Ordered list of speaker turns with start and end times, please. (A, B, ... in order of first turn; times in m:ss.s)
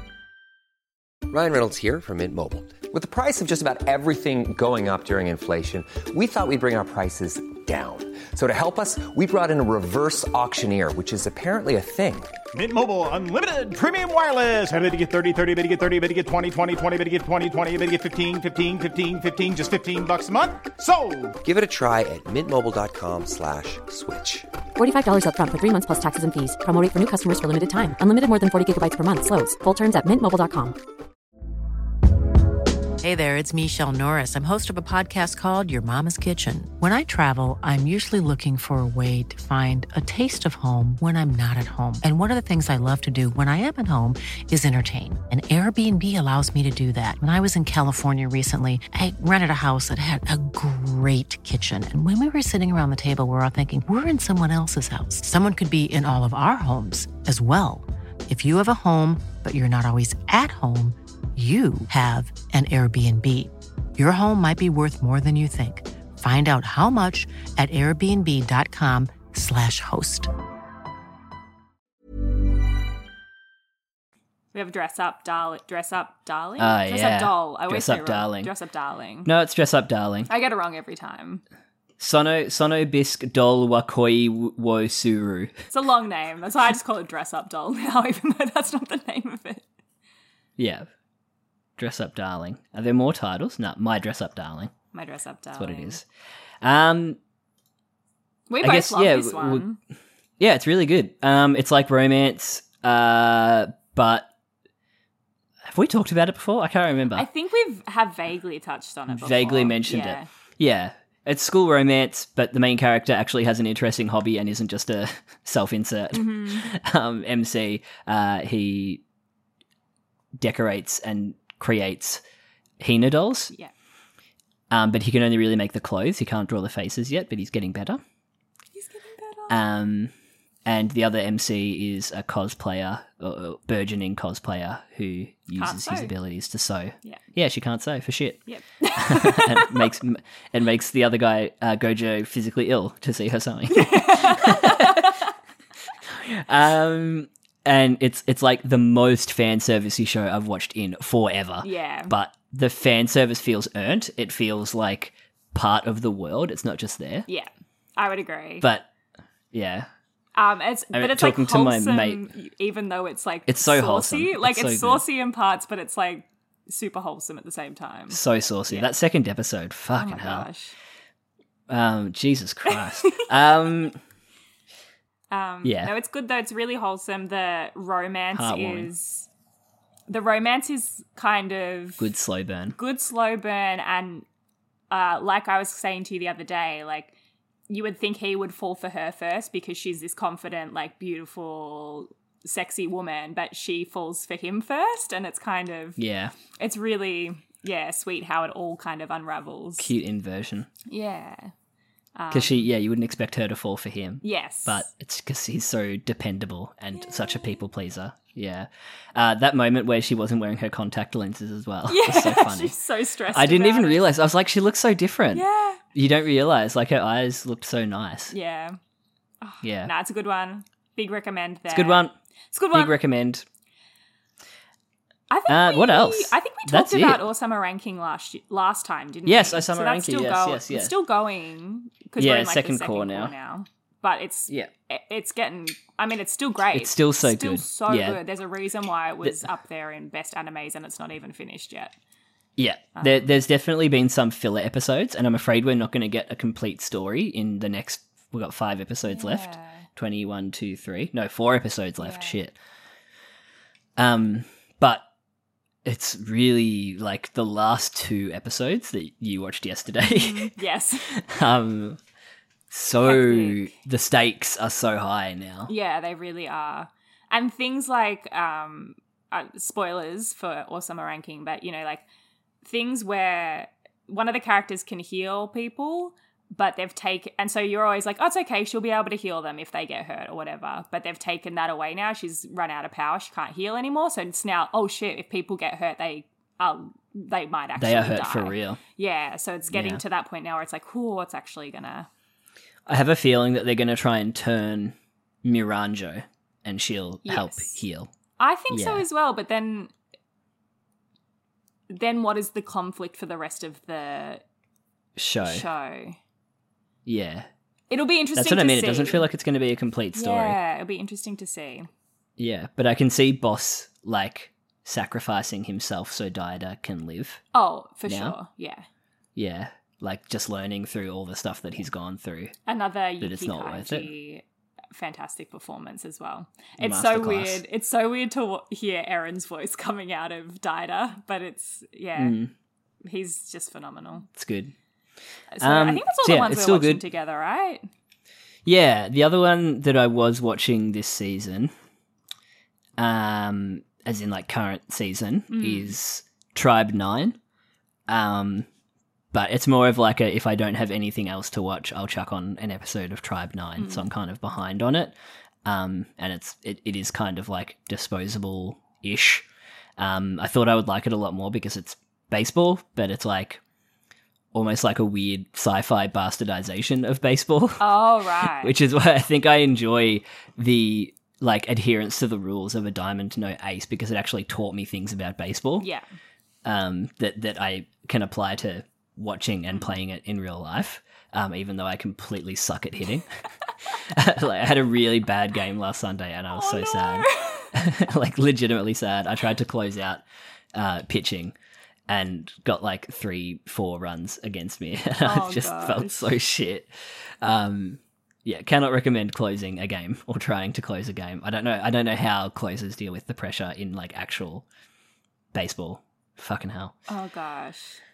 0:01.3-0:12.3 A
0:12.5-0:21.4 B
0:21.4-0:24.5 A
0:24.8-0:30.8 C
0:33.0-1:10.3 D
1:14.5-1:19.3 E
1:16.6-1:18.5 F
1:19.2-1:20.3 F
1:20.3-1:21.4 E
1:22.0-1:25.5 F
1:25.7-1:29.6 E
1:30.6-1:30.9 F
1:31.8-1:34.7 F
1:34.9-1:36.0 E
1:35.6-1:36.0 F
1:36.6-1:37.2 F
1:38.5-1:39.8 E
1:38.6-1:39.6 F
1:40.4-1:44.3 F
1:45.6-1:47.3 F
1:47.1-1:50.3 E
1:49.1-1:59.0 F
1:56.1-1:56.7 E
2:00.4-2:02.2 F
2:02.8-2:03.5 F
2:04.7-2:08.0 F
2:08.7-2:09.6 E
2:09.5-2:10.1 F
2:10.6-2:18.4 F
2:15.6-2:16.1 E
2:18.5-2:19.9 E
2:18.9-2:25.1 F
2:23.7-2:25.3 E
2:26.1-2:37.3 F
2:31.6-2:32.1 E
2:37.3-2:38.7 E
2:38.6-2:38.9 F
2:39.5-2:39.9 F
2:40.4-2:48.9 E
2:40.9-2:42.2 F
2:43.5-2:45.0 F
2:48.1-2:50.5 F
2:50.0-2:50.7 E
2:51.7-2:54.0 F
2:52.7-2:53.3 E
2:55.3-2:59.3 E
2:55.6-2:55.9 F
2:58.3-2:58.9 F
3:00.1-3:02.1 E
3:02.0-3:02.8 F
3:02.8-3:04.2 E
3:04.9-3:07.1 E
3:07.7-3:16.0 E
3:16.0-3:16.3 F
3:16.5-3:19.9 E
3:19.8-3:20.7 F
3:20.9-3:21.5 E
3:22.2-3:22.6 E
3:22.3-3:32.7 F
3:24.2-3:24.9 E
3:26.9-3:27.6 E
3:31.9-3:34.0 E
3:33.3-3:38.3 F
3:35.3-3:35.8 E
3:38.3-3:38.8 E
3:39.4-3:43.0 E
3:39.6-3:39.9 F
3:41.7-3:42.1 F
3:42.7-3:43.4 F
3:45.3-4:01.9 E
3:45.5-3:47.2 F
3:49.2-3:50.9 F
3:52.2-3:53.3 F
3:56.7-3:58.2 F
4:02.6-4:12.5 F
4:03.0-4:03.3 E
4:09.1-4:09.8 E
4:12.0-4:12.4 E
4:14.0-4:15.0 F
4:15.8-4:20.5 F
4:20.1-4:21.1 E
4:21.1-4:22.0 F
4:22.7-4:25.7 F
4:23.0-4:23.7 E
4:25.7-4:32.0 E
4:32.6-4:52.1 E
4:47.8-4:48.8 F
4:49.7-4:50.0 F
4:52.9-4:58.1 F
4:57.2-4:57.8 E
4:58.4-4:59.9 E
4:58.7-4:59.0 F
5:01.9-5:04.4 E
5:05.2-5:05.7 F
5:05.4-5:06.2 E
5:07.0-5:07.5 F
5:07.9-5:09.3 E
5:08.3-5:10.6 F
5:10.1-5:11.9 E
5:12.4-5:17.4 F
5:17.5-5:18.8 E
5:18.1-5:18.4 F
5:19.4-5:22.5 F
5:22.7-5:32.4 E
5:23.2-5:24.1 F
5:26.8-5:27.6 F
5:32.2-5:32.5 F
5:33.0-5:34.3 E
5:34.3-5:34.7 F
5:35.5-5:37.9 E
5:35.6-5:37.0 F
5:38.6-5:41.7 F
5:43.0-5:47.4 F
5:45.5-5:45.9 E
5:48.1-5:48.7 F
5:49.3-5:55.1 F
5:53.8-5:54.1 E
5:55.6-5:59.4 F
6:00.0-6:03.6 F
6:04.5-6:08.0 F
6:07.8-6:08.7 E
6:08.6-6:15.9 F
6:16.6-6:23.3 F
6:24.1-6:30.2 F
6:26.5-6:27.7 E
6:30.7-6:31.5 F
6:32.1-6:44.6 F
6:35.2-6:36.3 E
6:45.5-6:46.9 F
6:47.1-6:48.0 E